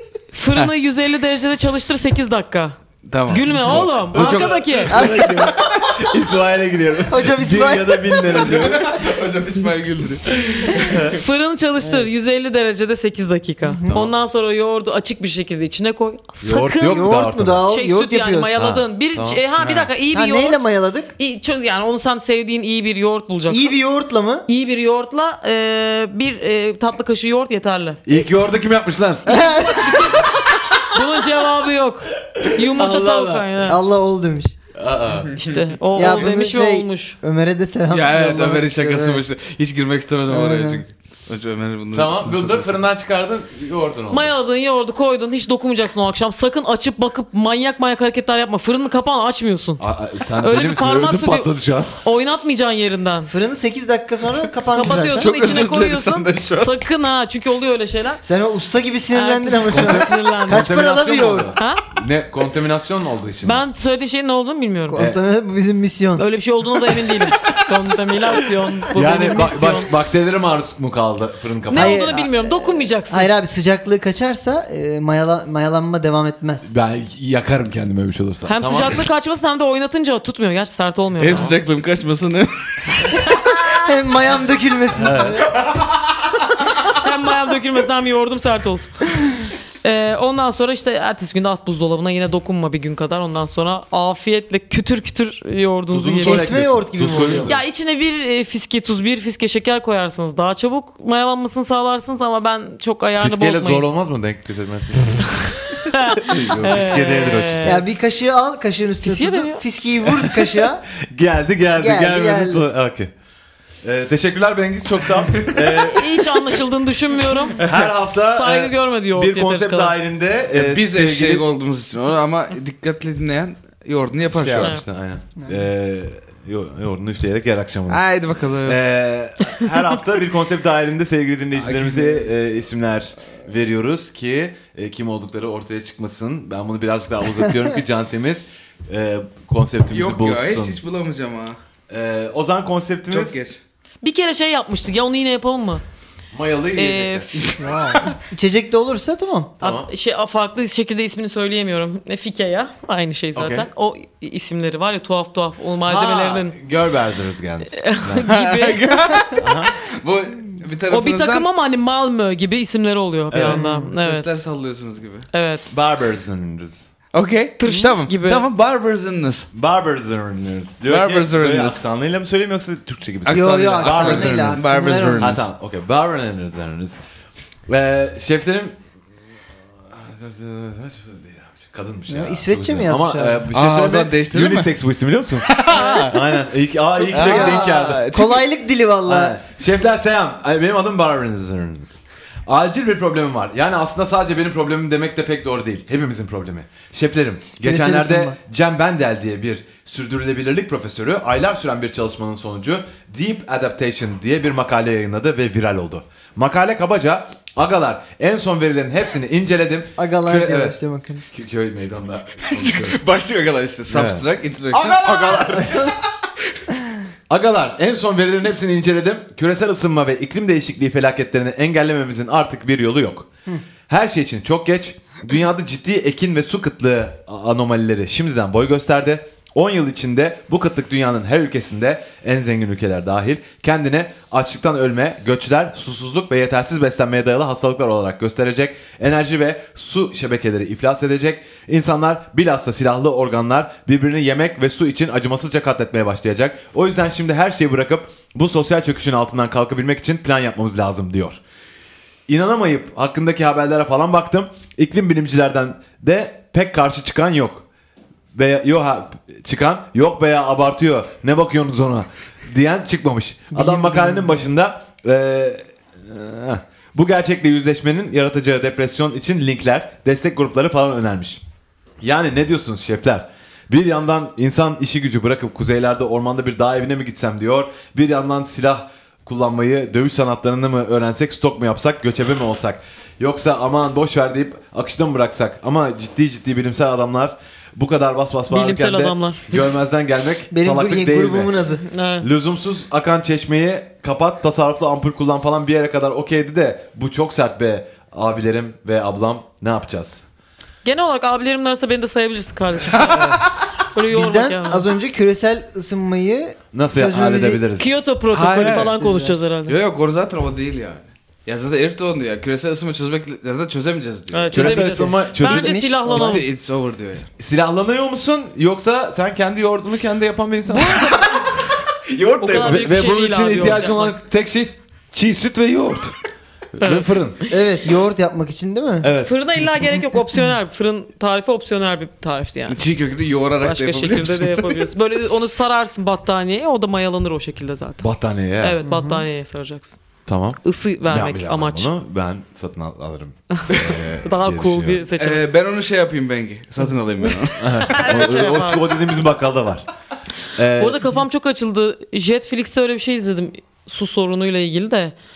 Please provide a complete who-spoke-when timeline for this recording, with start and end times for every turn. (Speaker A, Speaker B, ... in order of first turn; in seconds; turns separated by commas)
Speaker A: 0.3-2.8, Speaker B: 3.0-4.5, Speaker A: 3.3-4.9, Speaker C: 3.6-9.0, Speaker D: 4.9-5.5, Speaker D: 7.1-8.6, Speaker B: 8.3-10.9, Speaker C: 10.3-11.2, Speaker A: 10.9-20.6, Speaker D: 13.6-13.9, Speaker C: 13.9-14.1, Speaker C: 16.4-17.7, Speaker D: 16.9-18.5, Speaker C: 18.5-19.4, Speaker B: 19.6-19.9, Speaker D: 20.1-21.1, Speaker A: 21.2-23.7, Speaker D: 23.5-24.4, Speaker A: 24.5-28.0, Speaker C: 28.1-29.4, Speaker D: 29.3-30.1, Speaker A: 29.3-33.8, Speaker C: 32.3-33.6, Speaker D: 33.6-34.5, Speaker C: 34.7-35.4, Speaker B: 35.1-35.5, Speaker A: 35.4-37.2, Speaker D: 36.0-39.2, Speaker B: 37.9-42.8, Speaker D: 40.3-40.8, Speaker C: 41.9-44.3, Speaker A: 44.1-49.8, Speaker C: 49.8-52.0, Speaker A: 50.4-51.5, Speaker A: 52.0-53.3, Speaker D: 53.3-55.5, Speaker A: 54.7-58.2, Speaker B: 54.8-56.7, Speaker D: 58.2-61.5, Speaker A: 59.1-60.8, Speaker C: 59.7-63.6, Speaker A: 61.5-61.8, Speaker A: 63.4-65.1, Speaker D: 64.9-66.2, Speaker C: 64.9-65.2, Speaker A: 66.2-69.9, Speaker C: 68.9-72.2, Speaker D: 69.3-69.6, Speaker A: 71.7-73.3, Speaker D: 71.7-76.7, Speaker C: 76.6-79.0, Speaker A: 78.5-81.5, Speaker B: 81.2-83.2, Speaker A: 83.1-83.9, Speaker D: 83.7-85.5, Speaker C: 84.9-85.5, Speaker A: 86.8-89.0, Speaker A: 89.8-96.6, Speaker C: 95.9-97.6, Speaker D: 96.2-97.5, Speaker A: 97.1-103.8, Speaker C: 103.2-107.8, Speaker A: 105.7-107.8, Speaker D: 107.6-110.8, Speaker A: 109.0-109.6, Speaker C: 110.5-113.1, Speaker D: 111.8-112.6, Speaker C: 113.8-116.2, Speaker B: 115.3-115.8, Speaker A: 115.8-119.9, Speaker B: 117.6-117.9, Speaker C: 117.6-121.4, Speaker B: 120.5-124.7, Speaker C: 124.3-128.0, Speaker B: 127.9-128.8, Speaker C: 128.6-140.8, Speaker B: 131.6-132.3, Speaker B: 139.9-141.6, Speaker C: 141.9-143.4, Speaker B: 143.1-143.6, Speaker A: 144.0-145.8, Speaker C: 146.3-147.3, Speaker A: 146.7-147.3, Speaker B: 147.3-148.2, Speaker D: 147.6-149.5, Speaker C: 149.6-149.9, Speaker A: 149.6-156.6, Speaker C: 153.3-153.7, Speaker C: 155.8-158.3, Speaker A: 157.7-159.2, Speaker B: 158.2-161.4, Speaker C: 159.4-159.8, Speaker A: 160.9-164.3, Speaker C: 163.3-163.6, Speaker D: 163.5-163.9, Speaker B: 163.8-165.3, Speaker A: 165.3-165.7, Speaker C: 165.7-166.8, Speaker B: 167.1-169.5, Speaker A: 167.6-168.4, Speaker C: 169.5-174.7, Speaker B: 170.8-171.8, Speaker B: 173.2-175.5, Speaker D: 173.3-175.4, Speaker C: 175.2-177.0, Speaker C: 177.7-178.8, Speaker C: 179.8-188.0, Speaker D: 182.1-183.4, Speaker B: 183.5-184.7, Speaker B: 185.4-186.4, Speaker D: 187.0-189.3, Speaker B: 187.1-188.5, Speaker C: 189.0-210.8, Speaker D: 197.6-198.3, Speaker D: 210.0-211.2, Speaker C: 211.3-213.0, Speaker B: 212.5-215.9, Speaker C: 213.9-215.9, Speaker D: 215.6-215.9, Speaker C: 217.3-223.3, Speaker C: 223.9-251.4, Speaker C: 252.3-257.6, Speaker C: 258.3-271.4, Speaker D: 263.5-264.4, Speaker C: 272.0-291.5, Speaker A: 288.5-289.6, Speaker D: 290.5-291.8, Speaker A: 291.8-292.3, Speaker C: 292.2-300.2, Speaker A: 300.8-303.4, Speaker B: 302.9-303.3, Speaker A: 303.9-304.9, Speaker D: 304.1-307.6, Speaker C: 306.7-308.0, Speaker A: 307.8-309.8, Speaker B: 308.3-309.0, Speaker D: 308.6-309.4, Speaker B: 309.7-314.8, Speaker A: 314.3-316.4, Speaker C: 314.5-316.0, Speaker D: 314.6-316.3, Speaker B: 316.1-317.2, Speaker C: 317.2-321.5, Speaker A: 320.7-321.3, Speaker C: 322.1-326.1, Speaker A: 322.4-324.2, Speaker C: 326.7-327.4, Speaker A: 326.8-327.1, Speaker D: 327.5-329.1, Speaker C: 329.0-329.4, Speaker A: 329.2-332.8, Speaker B: 332.7-334.9, Speaker A: 333.6-340.0, Speaker C: 338.0-338.8, Speaker D: 338.8-339.2, Speaker C: 340.2-345.0, Speaker A: 340.6-341.9, Speaker A: 343.5-345.4, Speaker B: 345.2-348.3, Speaker C: 347.6-349.9, Speaker A: 347.8-348.9, Speaker C: 350.5-351.2, Speaker A: 350.8-355.1